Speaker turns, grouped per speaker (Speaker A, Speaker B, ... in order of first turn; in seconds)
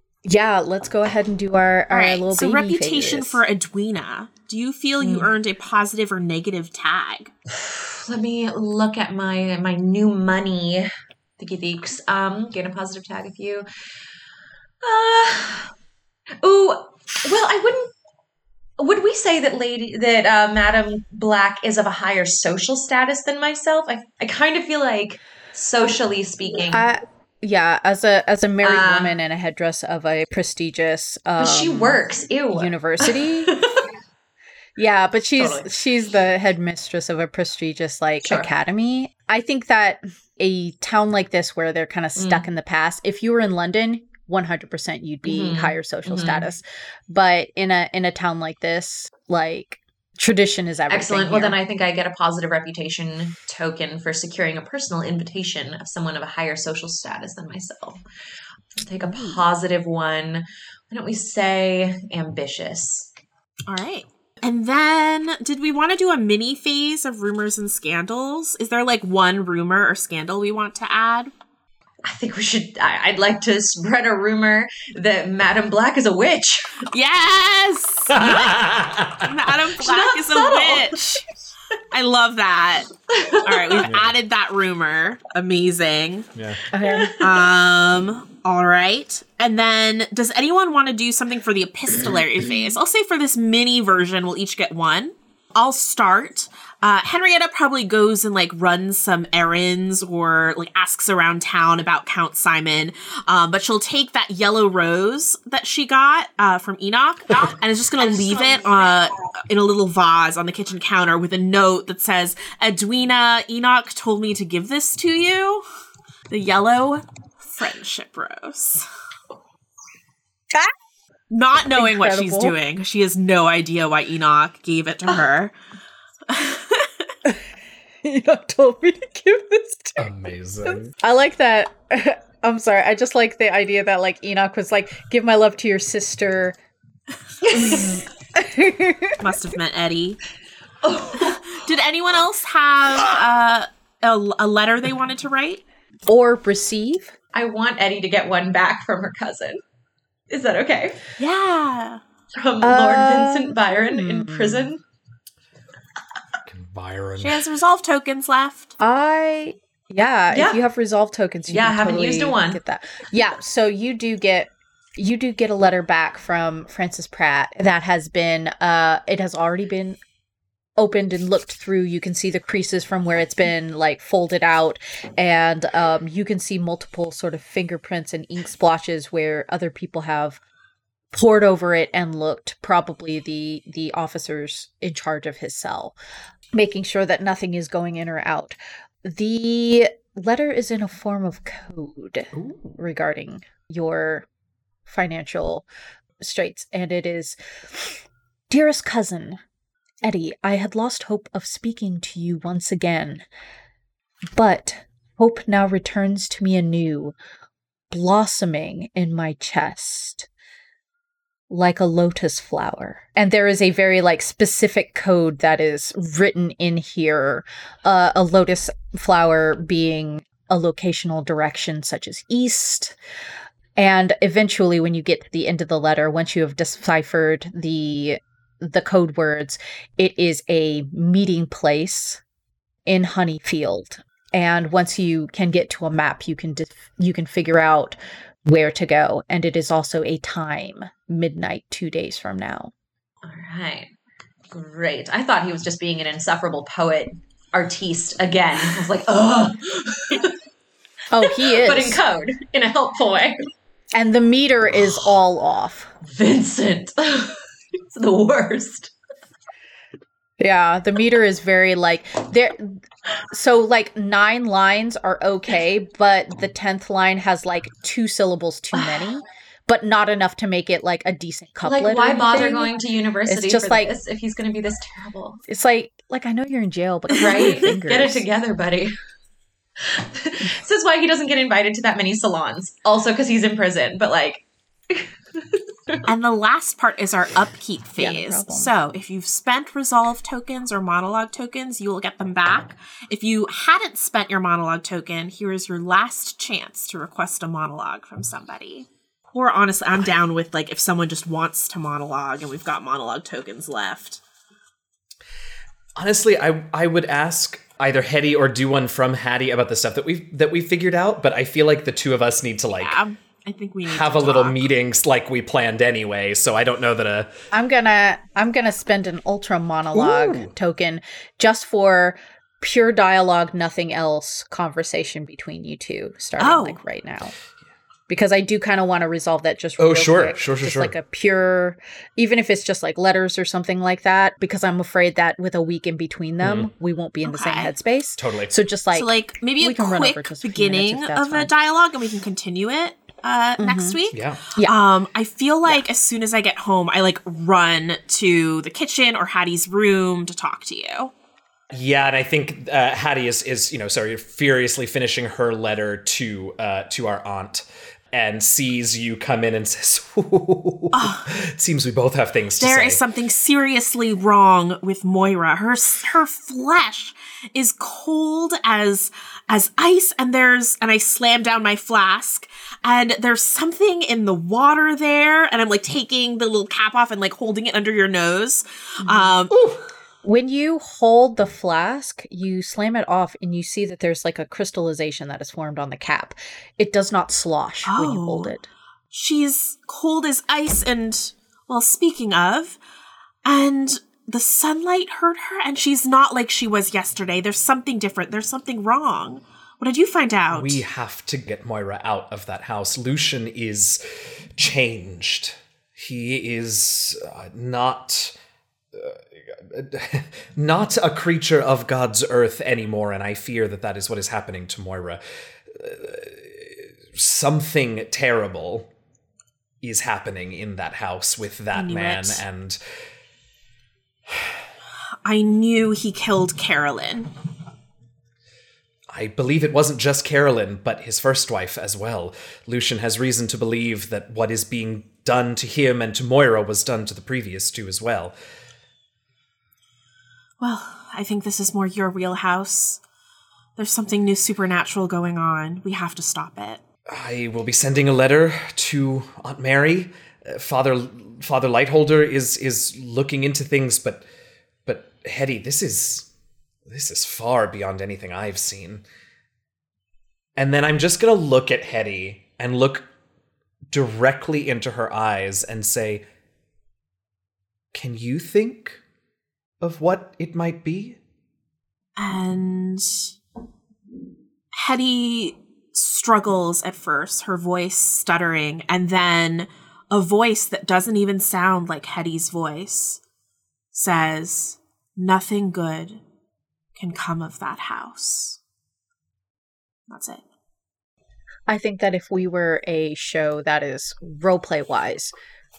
Speaker A: 0.2-3.4, 26.7-32.0, 32.5-33.5, 34.8-51.5, 86.7-87.2, 121.8-122.5, 128.0-130.1, 130.7-136.6, 137.5-139.2, 146.1-147.1, 152.6-154.7, 158.8-170.0, 170.8-180.4, 181.1-185.9, 186.5-194.3, 194.8-195.7, 196.2-199.4, 200.0-203.2, 204.3-207.1, 207.9-210.3, 211.5-223.0, 223.8-232.2, 232.9-242.7, 251.1-252.0, 253.9-255.9, 260.4-272.8, 273.3-273.9, 275.5-278.2, 288.0-288.7, 317.5-327.4, 328.1-341.5, 343.6-344.0, 380.2-388.7, 491.7-495.3
Speaker B: 1.9-7.3, 59.0-59.4, 63.7-71.3, 76.9-78.4, 79.2-81.1, 81.9-82.9, 83.4-86.3, 87.2-115.6, 116.3-118.9, 121.3-125.5, 126.3-127.1, 139.2-140.2, 141.1-145.6, 151.2-152.0, 157.2-158.7, 286.1-304.2, 312.8-314.6, 326.4-326.8, 337.2-337.7, 338.9-351.1, 360.9-361.3, 362.6-379.6, 387.9-388.5, 389.1-392.8, 393.4-400.8, 421.7-422.4, 425.2-427.3, 440.6-443.0, 443.8-446.8, 472.1-473.3, 474.7-483.2, 483.9-486.2, 486.9-488.6, 490.1-490.4
Speaker C: 5.0-5.3, 7.5-10.9, 11.4-13.7, 14.8-15.7, 16.4-17.9, 18.8-26.9, 28.6-29.2, 31.4-33.9, 35.4-35.7, 38.2-38.5, 42.2-42.5, 45.2-46.5, 50.9-58.0, 58.8-63.1, 72.0-76.8, 79.8-81.2, 83.1-83.9, 86.8-87.5, 108.0-109.0, 137.5-138.0, 140.8-141.5, 147.3-149.6, 150.3-151.1, 152.3-154.8, 160.3-160.6, 161.5-162.6, 243.2-243.9, 244.5-250.3, 251.2-253.5, 256.0-258.9, 271.6-275.4, 277.1-278.9, 279.8-286.1
Speaker D: 78.1-79.5, 83.8-84.1, 86.3-86.6, 130.0-130.9, 156.5-157.4, 192.3-192.6, 305.9-313.0, 313.9-317.3, 319.9-320.5, 329.8-330.9, 336.4-336.7, 338.2-338.5, 344.1-344.4, 351.7-363.0, 379.5-379.8, 400.5-408.3, 408.9-418.9, 419.8-422.8, 429.1-438.3, 447.1-454.2, 454.9-456.3, 456.9-459.0, 460.6-463.1, 463.9-466.2, 467.9-469.0, 469.8-471.2